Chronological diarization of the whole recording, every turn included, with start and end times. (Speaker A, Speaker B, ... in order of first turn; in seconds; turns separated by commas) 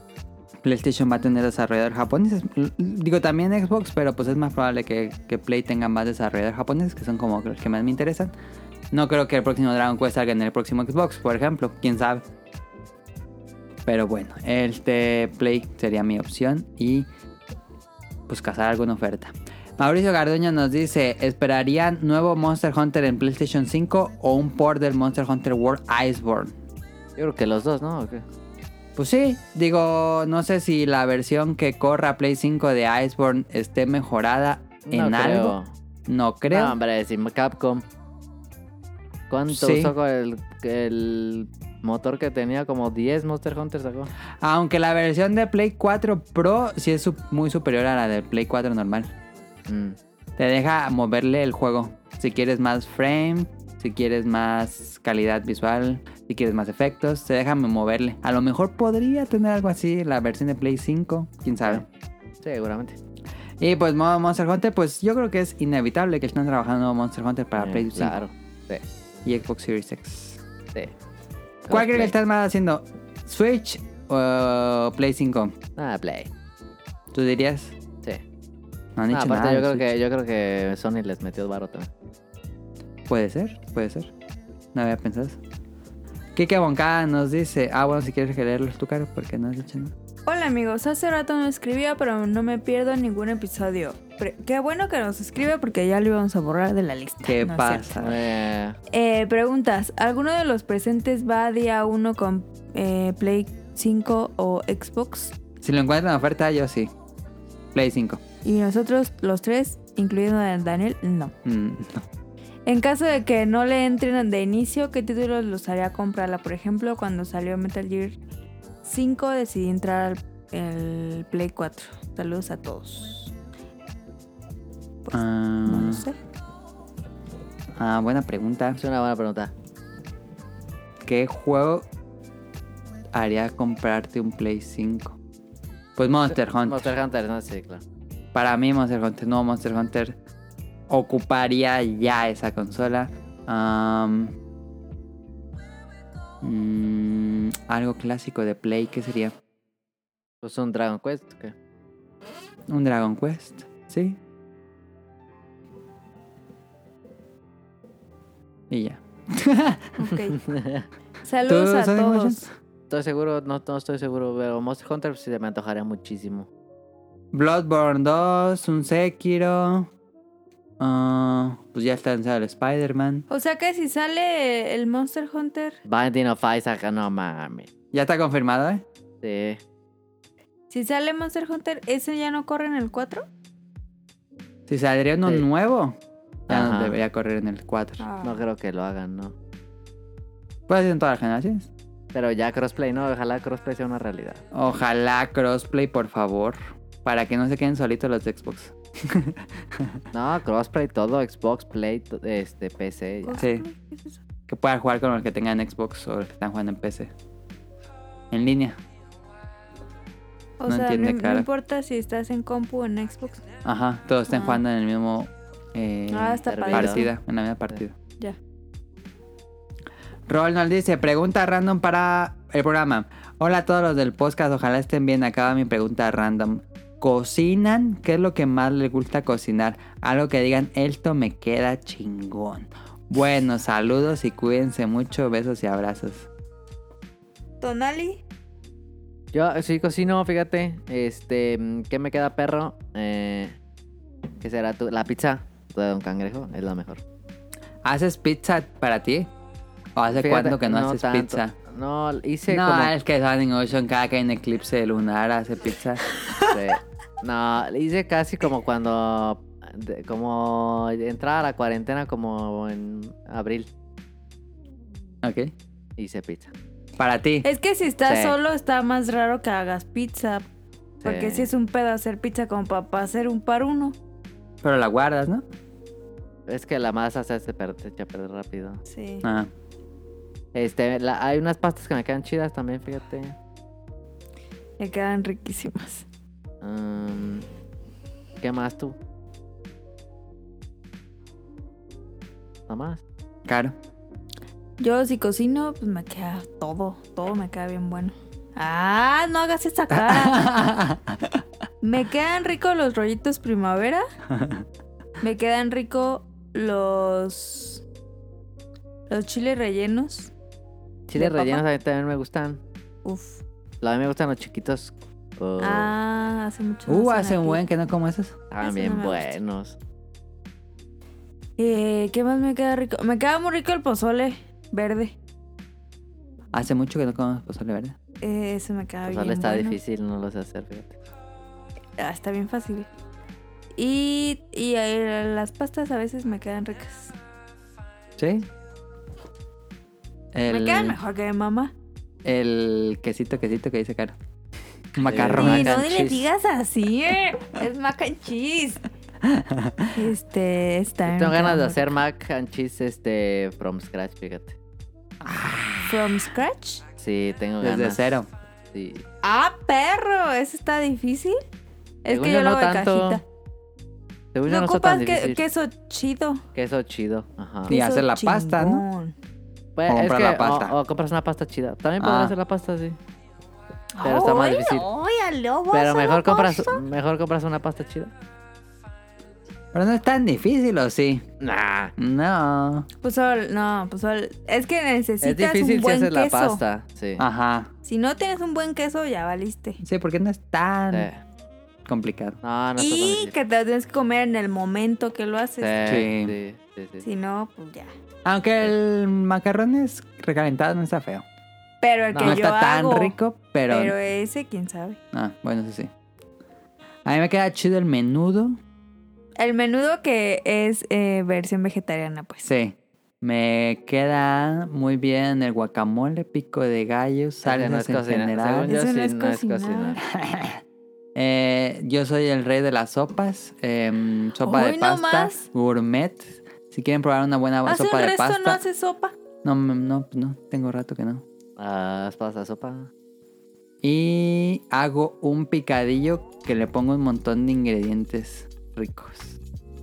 Speaker A: 0.6-8.3, Speaker A: 8.9-12.2, Speaker A: 13.9-17.1, Speaker A: 18.3-26.6, Speaker B: 27.2-28.2, Speaker A: 29.0-35.5, Speaker B: 34.9-35.7, Speaker A: 36.1-36.8, Speaker B: 36.5-37.9, Speaker B: 39.3-44.1, Speaker A: 39.5-39.9, Speaker A: 44.4-49.1, Speaker B: 49.7-50.0, Speaker A: 50.4-61.9, Speaker B: 62.4-63.0, Speaker A: 63.6-68.2, Speaker B: 67.6-68.8, Speaker A: 69.2-70.4, Speaker B: 71.7-72.1, Speaker A: 71.7-75.6, Speaker B: 75.8-76.3, Speaker A: 77.1-77.8, Speaker A: 79.0-79.8, Speaker B: 79.1-81.9, Speaker A: 83.1-84.1, Speaker A: 84.7-85.4, Speaker A: 86.3-89.9, Speaker C: 90.3-98.1, Speaker A: 97.2-98.1, Speaker B: 98.0-98.8, Speaker C: 98.9-105.4, Speaker A: 105.6-106.9, Speaker A: 107.7-108.2, Speaker C: 108.4-111.3, Speaker A: 111.5-112.1, Speaker C: 112.7-118.2, Speaker C: 118.8-123.3, Speaker C: 125.1-126.2, Speaker A: 125.1-126.1, Speaker A: 127.8-128.8, Speaker B: 128.8-129.5, Speaker A: 131.0-131.9, Speaker A: 133.1-135.2, Speaker A: 136.0-136.9, Speaker B: 136.3-137.8, Speaker A: 138.3-140.2, Speaker A: 140.9-144.3, Speaker A: 146.4-149.3, Speaker B: 150.4-151.5, Speaker A: 152.7-154.2, Speaker A: 158.7-159.9, Speaker C: 160.0-160.4, Speaker B: 160.4-160.8, Speaker C: 161.2-162.5, Speaker A: 161.5-162.5, Speaker B: 162.9-166.5, Speaker A: 167.3-169.9, Speaker A: 170.8-173.2, Speaker C: 173.3-175.8, Speaker B: 175.9-177.7, Speaker A: 177.9-178.8, Speaker B: 179.2-179.6, Speaker C: 180.7-183.3, Speaker A: 184.7-186.0, Speaker A: 186.5-188.0, Speaker B: 186.5-187.0, Speaker C: 188.0-188.4, Speaker B: 188.2-189.3, Speaker A: 190.7-191.7, Speaker B: 192.1-194.4, Speaker A: 194.5-200.0, Speaker B: 200.1-203.4, Speaker C: 203.2-204.2, Speaker A: 203.4-203.7, Speaker A: 204.5-207.1, Speaker A: 208.3-208.8, Speaker C: 210.6-213.4, Speaker A: 210.7-211.5, Speaker A: 213.6-217.9, Speaker C: 214.3-214.6, Speaker C: 216.1-217.1, Speaker B: 216.5-217.0, Speaker A: 220.3-236.3, Speaker C: 237.6-238.2, Speaker B: 239.3-243.6, Speaker B: 244.4-247.0, Speaker A: 247.8-249.3, Speaker A: 250.0-251.6, Speaker B: 250.1-252.9, Speaker A: 252.5-256.0, Speaker B: 256.5-263.7, Speaker A: 265.2-265.5, Speaker B: 266.0-266.5, Speaker A: 267.0-267.5, Speaker C: 267.4-270.4, Speaker B: 268.1-268.4, Speaker B: 271.0-271.5, Speaker C: 271.0-274.0, Speaker A: 274.6-275.4, Speaker B: 276.5-278.8, Speaker C: 278.9-279.2, Speaker A: 279.2-279.5, Speaker B: 280.5-283.4, Speaker C: 284.8-286.1, Speaker B: 286.6-287.5, Speaker B: 288.4-289.0, Speaker B: 292.7-293.0, Speaker A: 293.5-293.8, Speaker C: 294.8-300.5, Speaker A: 299.9-301.4, Speaker C: 301.8-304.1, Speaker A: 304.4-304.6, Speaker C: 305.2-307.8, Speaker C: 309.1-310.3, Speaker B: 311.1-312.6, Speaker C: 311.2-311.6, Speaker C: 313.1-313.4, Speaker B: 313.8-315.9, Speaker C: 315.6-317.6, Speaker A: 316.9-318.4, Speaker B: 318.5-319.8, Speaker C: 318.6-319.4, Speaker C: 321.6-325.2, Speaker A: 326.5-328.0, Speaker C: 328.2-329.8, Speaker B: 329.1-331.0, Speaker C: 332.0-332.9, Speaker C: 333.8-337.1, Speaker A: 338.2-338.5, Speaker A: 340.3-341.0, Speaker C: 340.5-341.7, Speaker A: 342.2-344.1, Speaker A: 344.9-346.1, Speaker B: 345.0-346.2, Speaker C: 345.3-348.8, Speaker A: 349.2-349.9, Speaker C: 349.9-351.9, Speaker B: 351.1-354.6, Speaker A: 355.2-356.0, Speaker C: 355.9-356.8, Speaker B: 357.0-358.2, Speaker A: 357.6-358.3, Speaker B: 358.7-359.0, Speaker C: 359.2-361.4, Speaker C: 362.0-363.2, Speaker B: 362.1-363.2, Speaker B: 364.3-365.4, Speaker C: 364.5-366.4, Speaker B: 366.6-367.8, Speaker A: 367.7-368.8, Speaker C: 367.7-369.1, Speaker B: 369.8-373.0, Speaker A: 369.9-370.8, Speaker A: 372.0-372.4, Speaker C: 373.9-376.8, Speaker B: 374.0-374.9, Speaker B: 375.7-378.1, Speaker A: 379.7-381.3, Speaker B: 381.4-381.9, Speaker A: 382.0-382.9, Speaker C: 383.0-386.6, Speaker B: 385.2-387.2, Speaker A: 387.2-387.7, Speaker C: 387.8-389.8, Speaker A: 389.8-391.1, Speaker B: 390.9-391.2, Speaker A: 391.9-392.4, Speaker B: 392.4-393.3, Speaker C: 392.8-395.8, Speaker B: 395.6-397.1, Speaker A: 395.9-396.4, Speaker C: 397.0-397.9, Speaker A: 398.2-401.2, Speaker C: 401.8-403.2, Speaker B: 402.1-402.4, Speaker A: 402.2-403.9, Speaker C: 403.7-405.0, Speaker A: 405.1-405.9, Speaker A: 407.1-408.6, Speaker C: 409.4-412.5, Speaker A: 412.4-418.7, Speaker B: 417.4-420.0, Speaker C: 418.6-420.0, Speaker A: 420.1-420.6, Speaker A: 421.1-428.6, Speaker C: 424.4-425.5, Speaker C: 427.6-429.1, Speaker A: 429.4-431.2, Speaker B: 431.6-432.9, Speaker A: 433.8-439.4